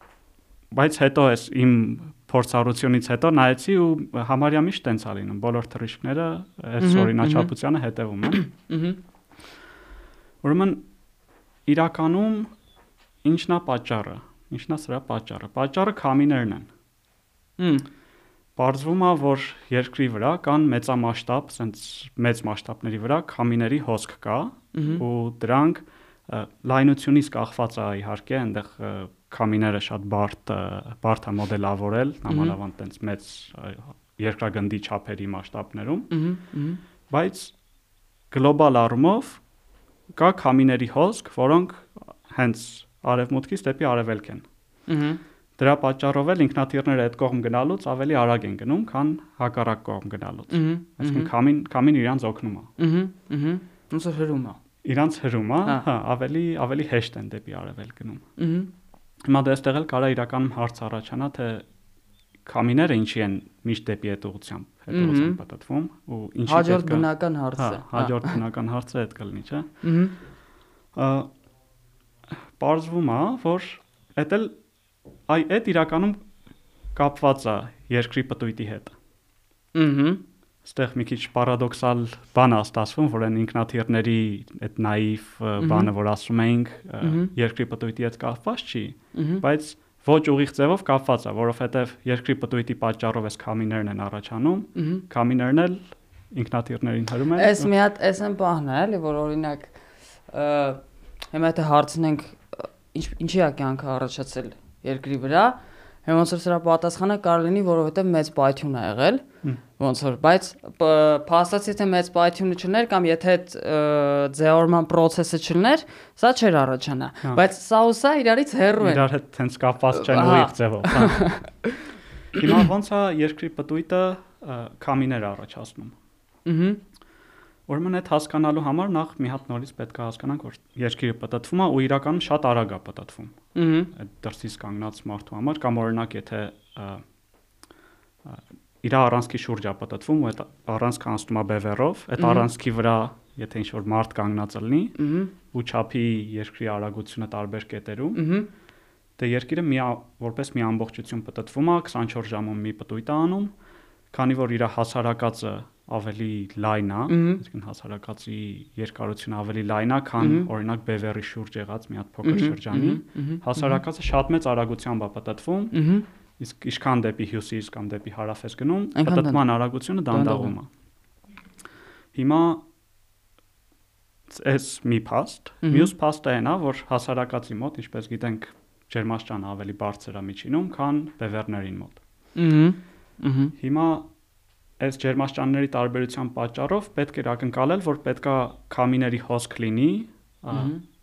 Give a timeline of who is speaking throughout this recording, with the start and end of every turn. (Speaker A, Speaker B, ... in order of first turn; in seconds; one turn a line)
Speaker A: 0.7-8.5
Speaker B: 6.8-7.5
Speaker B: 8.3-9.0
Speaker A: 10.4-10.8
Speaker A: 11.7-12.5
Speaker A: 13.2-16.7
Speaker B: 17.6-17.8
Speaker A: 18.6-36.1
Speaker B: 24.7-25.0
Speaker B: 32.3-32.6
Speaker B: 36.1-36.8
Speaker A: 37.1-37.5
Speaker A: 38.3-39.4
Speaker A: 40.1-44.5
Speaker B: 44.9-45.2
Speaker A: 45.6-52.7
Speaker B: 50.5-51.3
Speaker B: 52.8-54.6
Speaker A: 54.8-58.3
Speaker B: 58.4-58.7
Speaker A: 59.2-61.6
Speaker A: 62.4-69.7
Speaker B: 64.9-65.4
Speaker B: 66.5-68.4
Speaker B: 69.8-70.1
Speaker A: 70.9-71.3
Speaker A: 72.3-74.6
Speaker A: 75.3-76.2
Speaker A: 76.9-78.9
Speaker B: 79.7-80.2
Speaker A: 80.6-97.7
Speaker B: 85.6-85.9
Speaker B: 87.0-87.3
Speaker B: 89.1-89.4
Speaker B: 94.7-95.0
Speaker B: 97.3-109.2
Speaker B: 109.8-119.0
Speaker A: 118.8-121.4
Speaker B: 119.9-121.9
Speaker A: 122.3-125.9
Speaker B: 126.4-126.8
Speaker A: 127.7-133.4
Speaker B: 133.5-133.9
Speaker A: 133.9-137.0
Speaker A: 138.2-144.9
Speaker B: 142.2-142.5
Speaker B: 145.0-145.3
Speaker A: 145.5-148.2
Speaker B: 148.1-148.5
Speaker A: 149.2-153.5
Speaker A: 154.1-165.8
Speaker B: 157.1-157.4
Speaker B: 160.2-160.5
Speaker B: 162.2-163.8
Speaker B: 165.7-166.1
Speaker A: 166.4-170.7
Speaker B: 168.9-170.5
Speaker A: 172.1-172.6
Speaker A: 174.3-182.0
Speaker B: 175.6-175.9
Speaker B: 182.3-183.5
Speaker A: 183.6-184.1
Speaker A: 184.8-190.7
Speaker B: 190.5-190.8